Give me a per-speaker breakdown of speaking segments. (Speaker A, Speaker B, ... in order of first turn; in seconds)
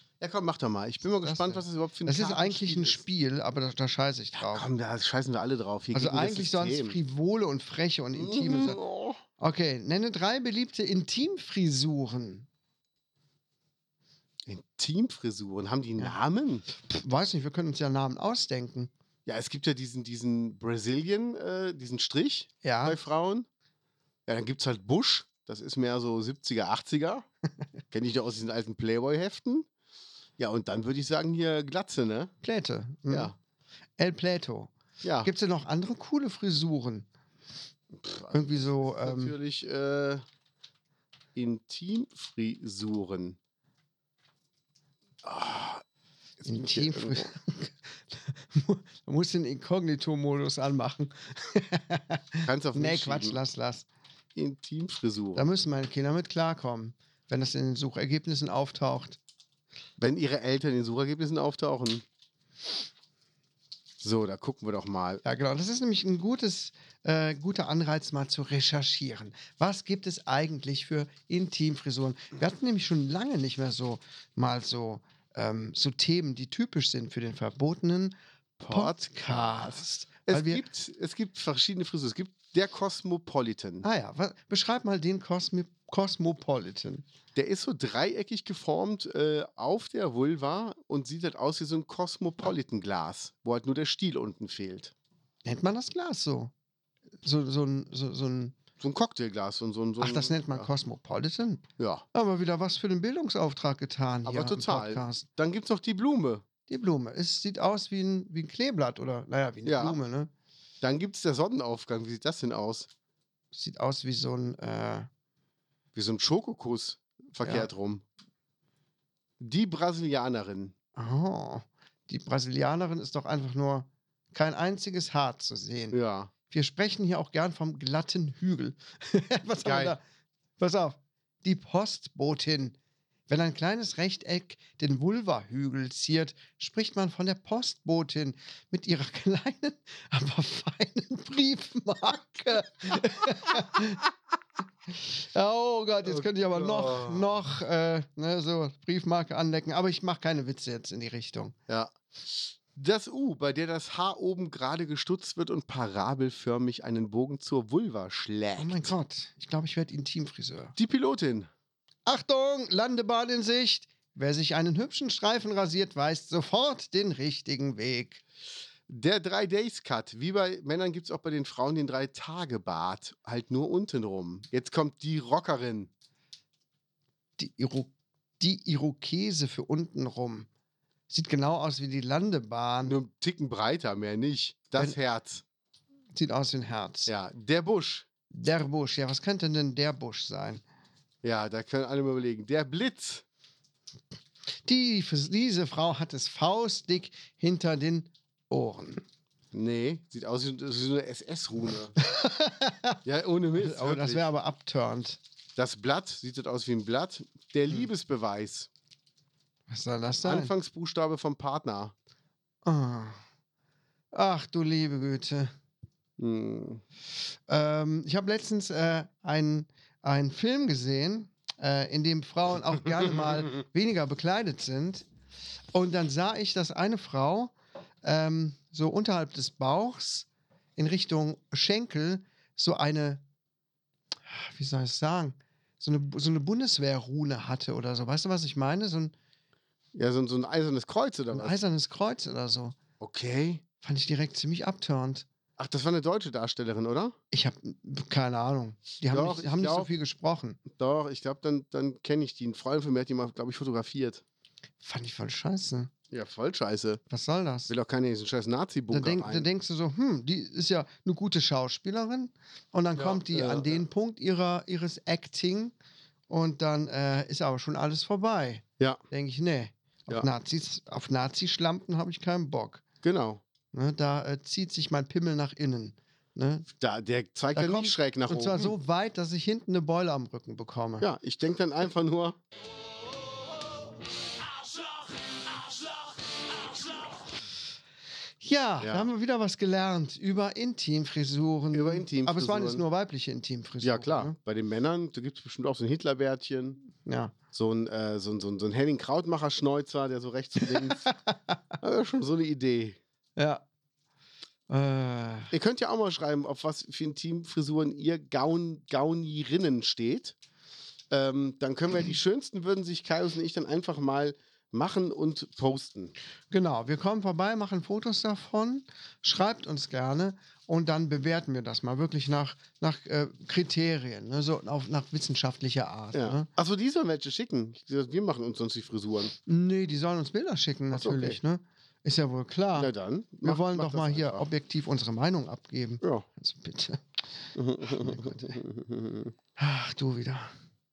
Speaker A: 0.2-3.0, 4.3-7.0, 8.1-9.2, 14.4-16.6, 19.2-23.5, 24.3-27.2, 27.9-29.7, 30.4-32.3, 33.1-33.3, 35.0-35.3, 38.0-40.2, 41.3-43.4, 45.2-45.8, 46.4-47.3, 52.4-53.4, 54.3-55.4, 60.0-62.0, 64.0-65.2, 78.6-83.8, 87.3-94.9, 98.8-100.7, 101.8-102.0, 104.2-106.4, 109.6-110.0, 110.8-112.9, 115.9-118.0, 119.4-120.7, 125.9-126.3, 129.6-130.0, 146.0-147.4, 151.7-158.9, 160.8-161.5, 168.9-175.9, 182.8-185.4, 187.1-188.1, 191.2-193.2, 199.5-201.9, 203.0-204.2, 205.6-208.7, 210.2-211.9, 216.2-216.8, 239.9-241.5, 243.0-243.6, 245.6-247.2, 249.1-249.9, 250.7-254.2, 256.1-257.0, 257.7-259.5, 262.9-263.8, 273.0-273.4, 276.7-278.7, 281.0-282.4, 288.8-289.1, 291.7-292.8, 293.8-296.8, 297.5-301.1, 301.8-303.0, 305.5-310.4, 311.1-316.1, 326.1-329.3, 330.9-331.4, 332.8-334.4, 336.0-336.3, 337.5-339.3
Speaker B: 1.2-4.7, 5.9-8.8, 9.4-12.4, 16.8-18.9, 22.6-23.0, 32.4-33.3, 34.0-34.7, 35.2-37.1, 38.3-39.4, 46.4-53.9, 55.3-59.2, 65.2-78.2, 78.7-80.6, 83.8-87.0, 95.4-96.5, 97.2-98.6, 100.0-105.2, 106.7-110.3, 113.5-115.1, 121.0-126.0, 126.5-130.0, 130.6-132.8, 133.3-144.0, 144.9-151.5, 158.6-160.7, 162.1-168.2, 177.4-180.5, 181.1-183.0, 186.1-187.1, 188.3-190.6, 194.6-199.0, 202.0-203.0, 203.6-205.2, 209.7-210.5, 212.6-213.2, 214.1-215.5, 217.5-225.1, 225.7-233.2, 234.3-239.1, 241.3-242.8, 243.8-245.2, 247.3-250.6, 254.8-255.9, 257.1-257.7, 258.9-265.7, 266.3-272.8, 273.7-276.7, 277.5-281.1, 288.4-294.3, 297.0-297.3, 301.0-301.6, 303.4-303.6, 304.7-305.5, 316.5-326.5, 329.4-332.9, 333.4-337.0, 337.9-338.6, 339.6-340.5